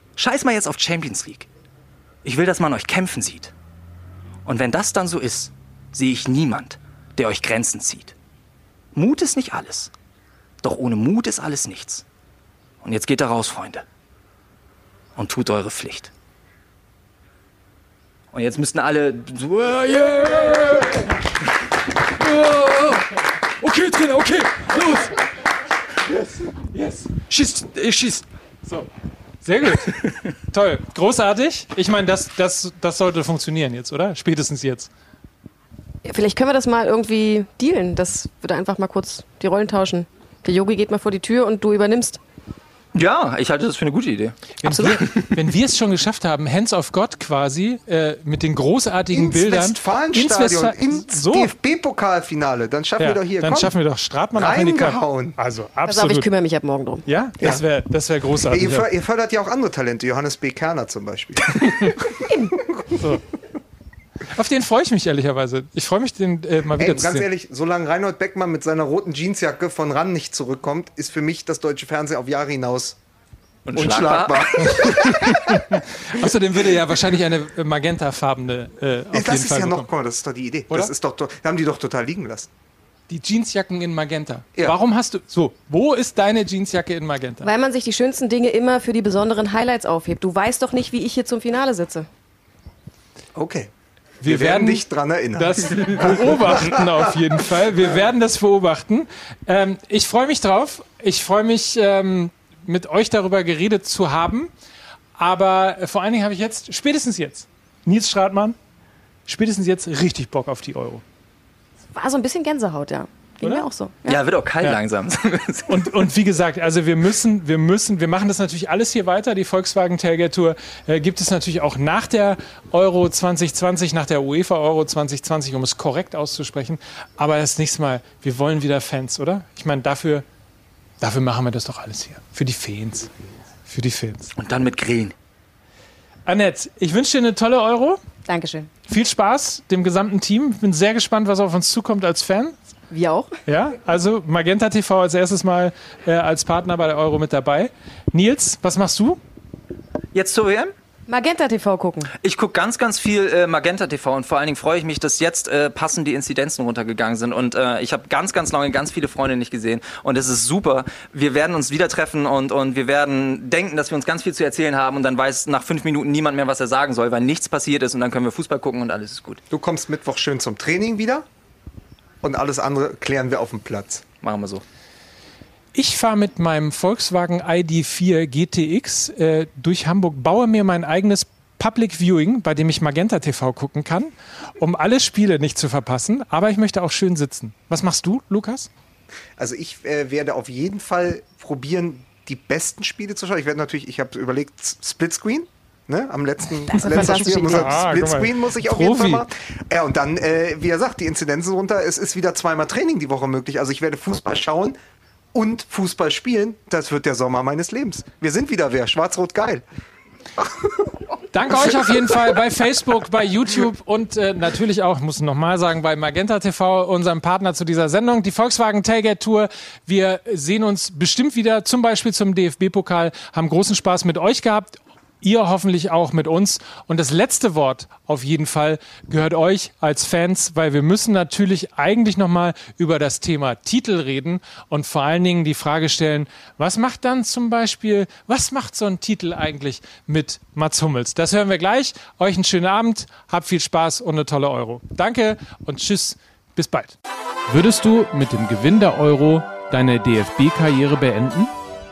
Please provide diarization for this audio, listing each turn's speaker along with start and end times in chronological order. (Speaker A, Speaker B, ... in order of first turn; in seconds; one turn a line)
Speaker A: 0.2-1.5
Speaker A: 2.2-3.5
Speaker A: 4.5-8.2
Speaker A: 8.9-9.9
Speaker A: 10.6-12.1
Speaker A: 12.8-13.8
Speaker A: 15.2-16.1
Speaker A: 18.3-20.9
Speaker B: 22.4-23.0
Speaker B: 23.6-25.2
Speaker B: 26.6-28.9
Speaker B: 29.4-34.9
Speaker C: 36.1-42.2
Speaker A: 43.0-44.5
Speaker B: 44.6-51.5
Speaker D: 49.1-53.8
Speaker B: 53.0-56.3
Speaker D: 54.3-55.4
Speaker C: 55.9-57.1
Speaker B: 57.1-58.9
Speaker D: 58.4-63.1
Speaker B: 64.3-67.3
Speaker D: 66.8-73.0
Speaker A: 73.7-75.1
Speaker D: 73.7-75.6
Speaker B: 75.0-79.9
Speaker D: 79.1-82.5
Speaker B: 83.1-87.5
Speaker C: 87.4-92.1
Speaker D: 93.3-93.7
Speaker B: 94.2-94.8
Speaker D: 94.2-97.1
Speaker B: 95.3-104.5
Speaker B: 105.2-108.6
Speaker B: 109.3-111.0
Speaker C: 111.9-114.2
Speaker A: 114.1-115.9
Speaker B: 115.7-130.2
Speaker B: 131.0-133.1
Speaker B: 133.7-134.3
Speaker A: 134.4-135.1
Speaker B: 136.3-138.0
Speaker C: 138.3-138.7
Speaker B: 138.9-142.6
Speaker C: 142.9-143.3
Speaker B: 143.5-149.2
Speaker A: 150.1-150.7
Speaker C: 151.1-152.1
Speaker A: 152.2-169.4
Speaker D: 169.5-171.2
Speaker D: 172.2-174.0
Speaker A: 174.2-174.6
Speaker B: 175.8-188.7
Speaker D: 189.4-204.8
Speaker C: 196.7-197.8
Speaker B: 196.9-199.2
Speaker D: 205.3-209.6
Speaker B: 211.3-247.0
Speaker B: 247.5-251.5